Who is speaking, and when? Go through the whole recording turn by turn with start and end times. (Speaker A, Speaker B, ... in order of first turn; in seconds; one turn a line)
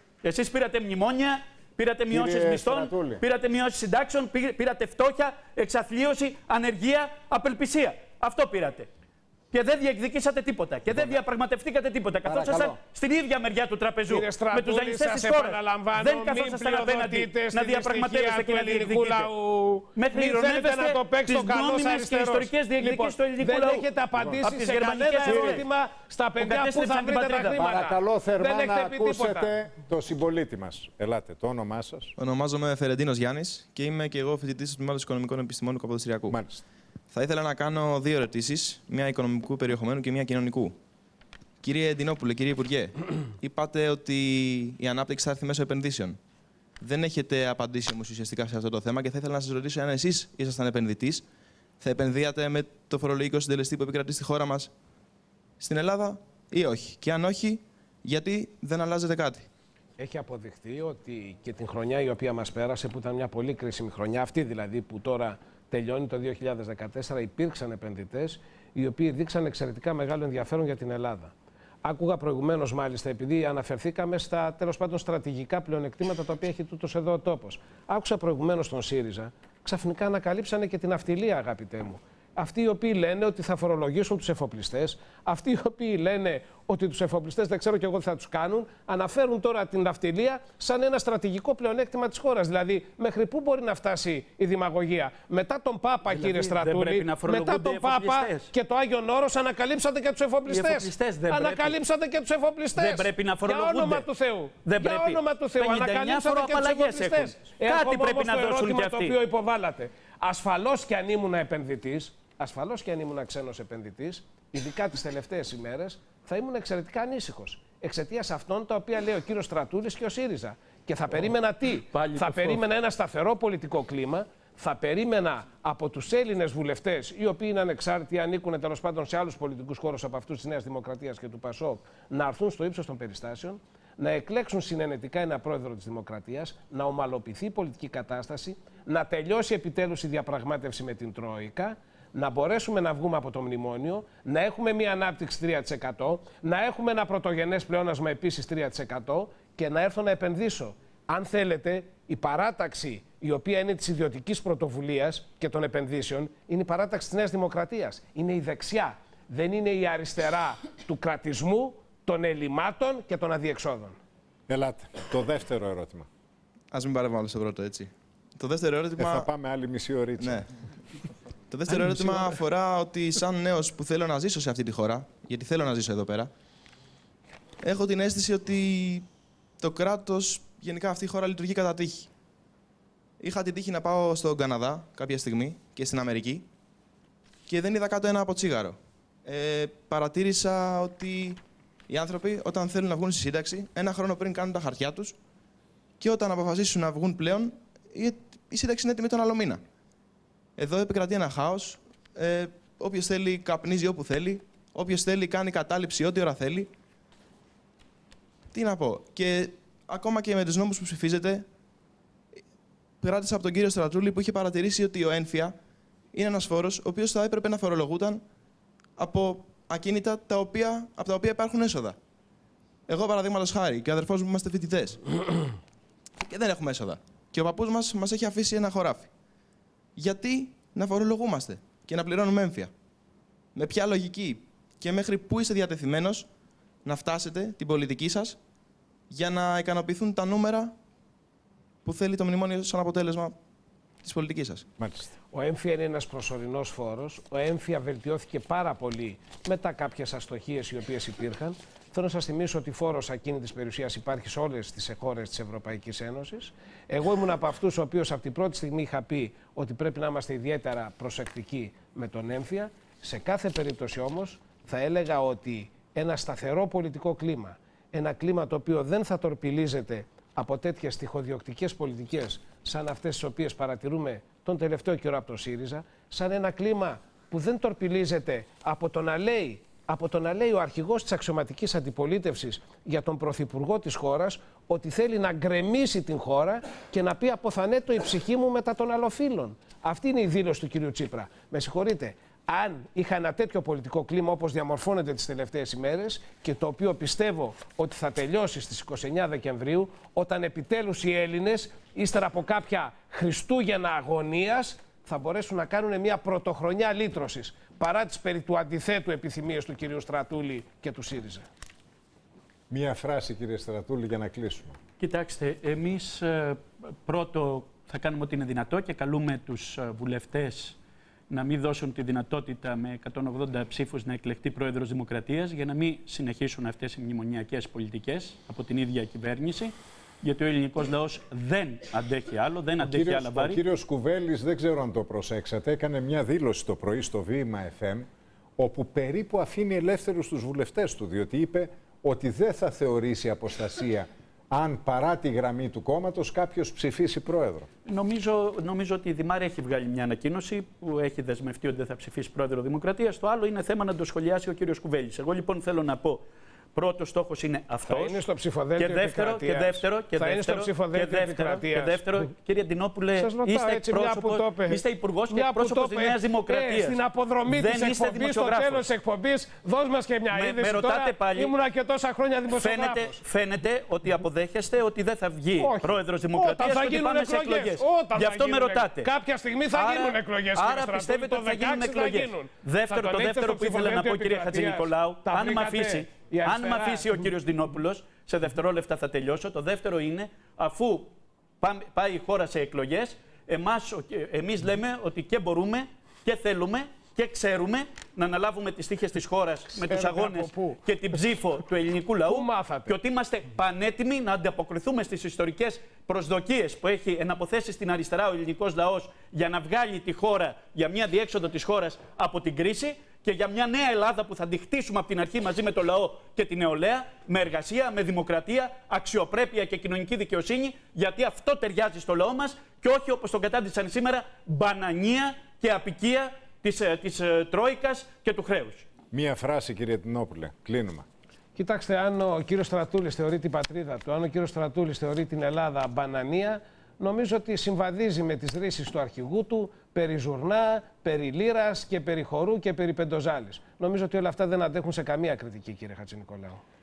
Speaker A: 0.2-8.9
Speaker B: 2.1-3.2
Speaker A: 9.5-19.3
Speaker B: 10.9-11.2
Speaker B: 12.2-12.8
Speaker C: 14.1-29.5
Speaker A: 20.0-23.9
Speaker A: 24.4-25.7
Speaker B: 25.2-25.6
Speaker A: 26.4-27.6
Speaker B: 27.6-32.1
Speaker D: 32.2-36.4
Speaker B: 36.3-36.6
Speaker D: 37.1-40.8
Speaker D: 41.6-46.2
Speaker D: 46.8-51.3
Speaker D: 51.8-54.7
Speaker D: 55.6-59.5
Speaker C: 60.0-71.3
Speaker C: 71.8-164.0
Speaker A: 96.1-98.5
Speaker A: 100.5-101.8
Speaker A: 102.8-104.1
Speaker A: 104.7-109.2
Speaker A: 121.9-122.6
Speaker B: 164.5-166.1
Speaker D: 166.7-169.3
Speaker B: 169.0-170.5
Speaker D: 170.2-170.5
Speaker D: 171.5-176.3
Speaker D: 177.6-179.1
Speaker D: 179.6-182.1
Speaker D: 183.2-186.5
Speaker D: 187.5-195.2
Speaker D: 196.0-199.6
Speaker D: 200.6-206.7
Speaker D: 208.5-211.5
Speaker D: 213.0-215.6
Speaker D: 216.1-218.2
Speaker D: 219.0-222.0
Speaker D: 222.9-225.0
Speaker D: 226.3-229.1
Speaker D: 230.0-232.7
Speaker D: 233.6-236.3
Speaker D: 236.8-238.4
Speaker D: 239.1-240.8
Speaker D: 241.8-243.4
Speaker D: 244.0-244.7
Speaker B: 244.8-245.1
Speaker C: 245.3-311.5
Speaker B: 312.7-314.8
Speaker A: 315.0-320.8
Speaker A: 321.3-333.6
Speaker B: 332.8-338.1
Speaker B: 338.6-347.7
Speaker A: 347.9-356.2
Speaker A: 356.8-358.2
Speaker C: 357.9-362.0
Speaker A: 358.8-368.9
Speaker C: 363.2-373.2
Speaker A: 370.3-371.5
Speaker A: 372.5-379.1
Speaker C: 375.6-387.2
Speaker A: 379.8-428.9
Speaker C: 399.8-400.8
Speaker C: 402.3-402.9
Speaker B: 429.1-431.1
Speaker C: 431.6-446.6